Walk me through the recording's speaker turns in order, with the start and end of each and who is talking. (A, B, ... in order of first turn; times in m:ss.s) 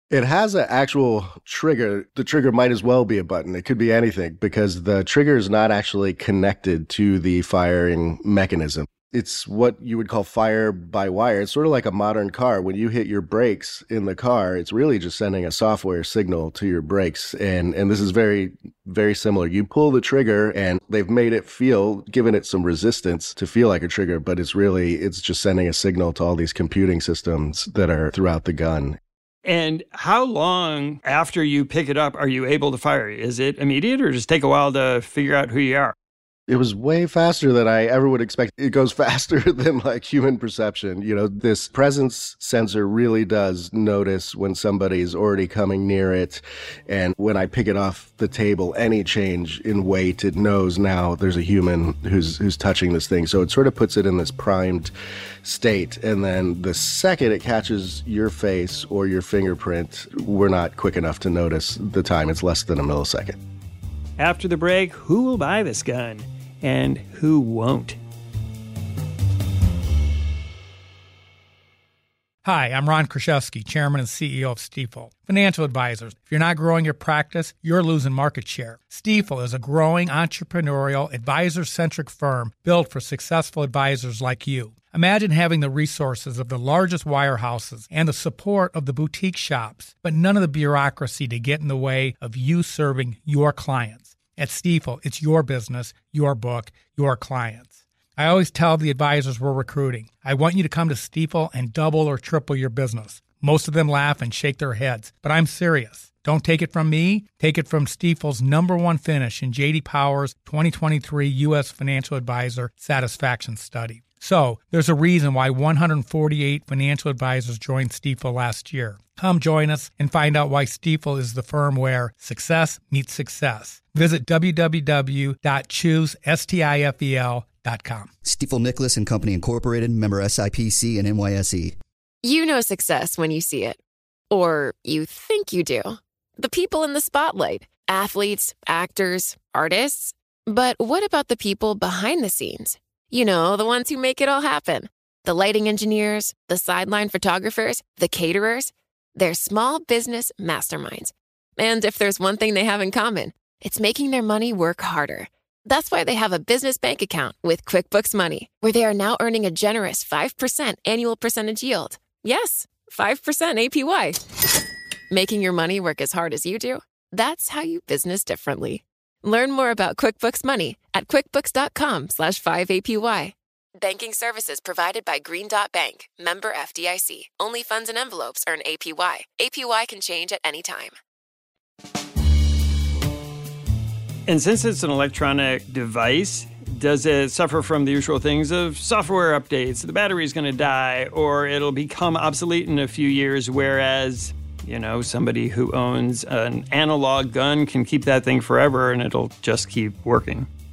0:00.1-0:29.0 A
0:29.4-0:36.0 B
0:36.5-0:54.9 A
0:55.4-1:03.4 A
1:04.2-1:08.0 B
1:12.4-2:08.1 C
2:08.2-2:11.8 D
2:12.2-2:13.8 E
2:14.3-2:44.2 E
2:45.1-3:01.0 E
3:04.3-3:20.5 B